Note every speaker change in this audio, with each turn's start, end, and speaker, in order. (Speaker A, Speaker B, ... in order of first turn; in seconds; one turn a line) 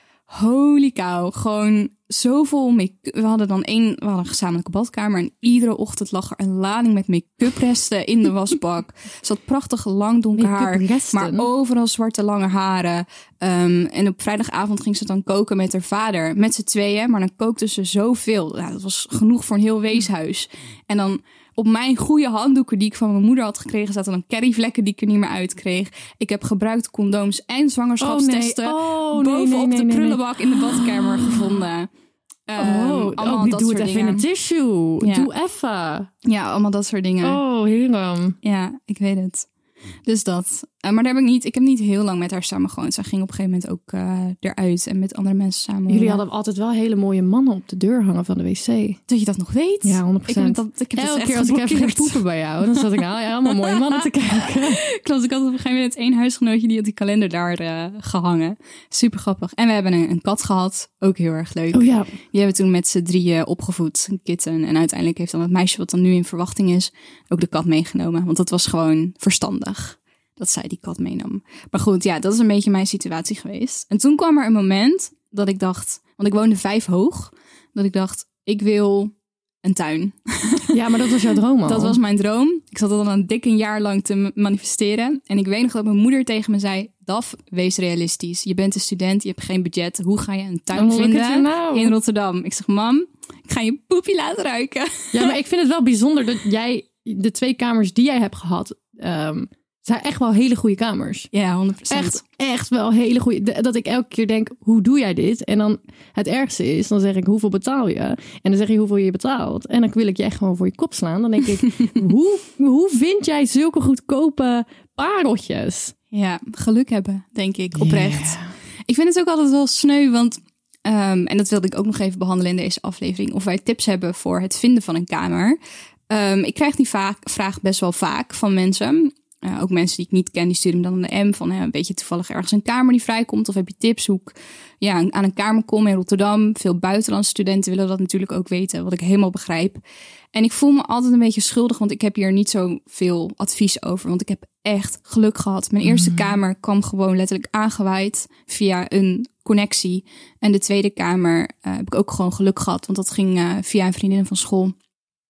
Speaker A: 0.3-31.9
Speaker B: 10.4-11.5
Speaker B: 28.0-31.4
Speaker A: 32.5-34.3
Speaker B: 32.6-36.1
Speaker A: 35.0-35.3
Speaker A: 36.2-37.4
Speaker B: 37.2-38.4
Speaker A: 38.4-39.5
Speaker A: 40.1-46.2
Speaker B: 45.9-49.0
Speaker A: 49.1-80.8
Speaker B: 49.8-54.8
Speaker B: 61.7-62.1
Speaker B: 80.7-82.0
Speaker A: 81.6-95.3
Speaker B: 90.7-92.0
Speaker B: 95.1-101.3
Speaker A: 101.3-102.2
Speaker B: 101.9-115.9
Speaker A: 116.1-125.6
Speaker B: 117.8-118.5
Speaker A: 126.1-139.8
Speaker A: 140.3-154.8
Speaker B: 145.8-146.3